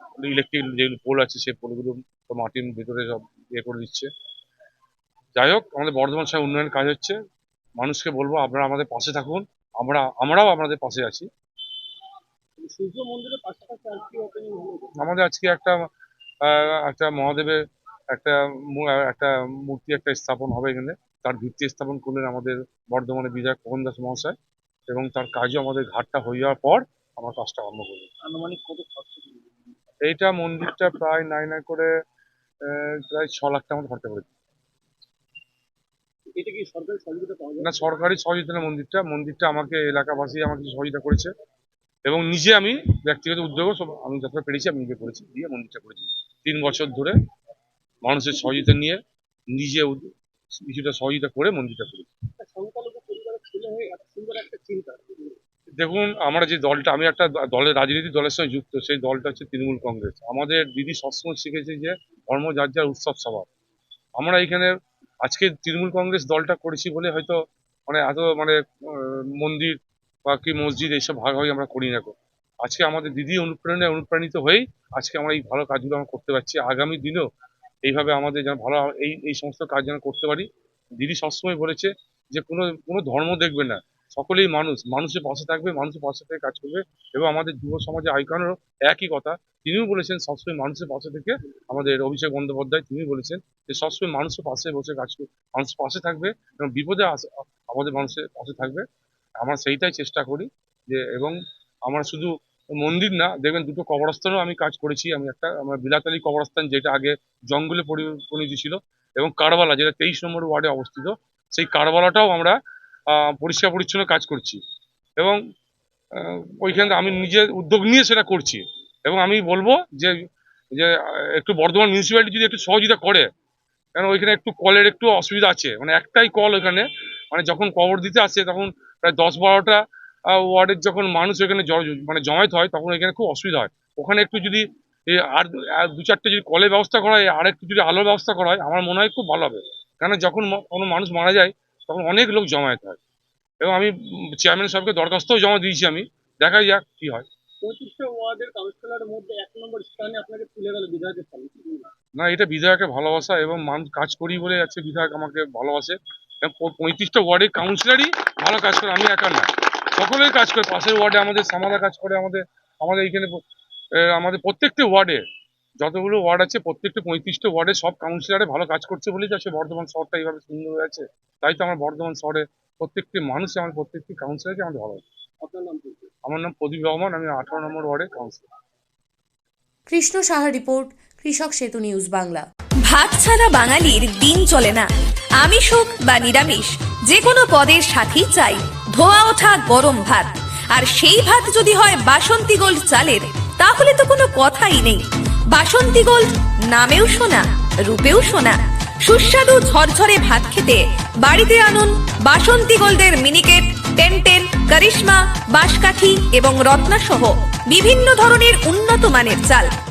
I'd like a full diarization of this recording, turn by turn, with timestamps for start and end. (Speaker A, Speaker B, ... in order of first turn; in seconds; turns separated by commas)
Speaker A: 0.2-4.1, Speaker A: 5.3-7.2, Speaker A: 7.8-11.3, Speaker B: 12.6-14.9, Speaker A: 15.0-15.8, Speaker A: 16.4-17.6, Speaker A: 18.1-24.3, Speaker A: 24.9-28.1, Speaker B: 28.2-29.4, Speaker A: 30.0-31.9, Speaker A: 32.6-34.3, Speaker B: 36.4-37.7, Speaker A: 37.6-41.3, Speaker A: 42.0-47.1, Speaker A: 48.0-49.0, Speaker A: 49.5-50.1, Speaker A: 50.6-52.1, Speaker B: 52.4-55.4, Speaker A: 55.8-63.5, Speaker A: 64.2-64.7, Speaker A: 65.2-69.8, Speaker A: 70.3-77.2, Speaker A: 77.8-80.5, Speaker A: 81.0-98.8, Speaker A: 99.4-112.5, Speaker A: 113.1-114.6, Speaker A: 116.1-120.1, Speaker A: 120.7-123.3, Speaker A: 123.9-143.0, Speaker A: 143.6-147.2, Speaker B: 147.6-151.9, Speaker A: 152.2-163.4, Speaker A: 164.0-165.2, Speaker A: 165.8-175.0, Speaker B: 175.4-176.1, Speaker A: 176.2-178.4, Speaker C: 179.9-182.4, Speaker D: 182.9-184.8, Speaker D: 185.4-209.7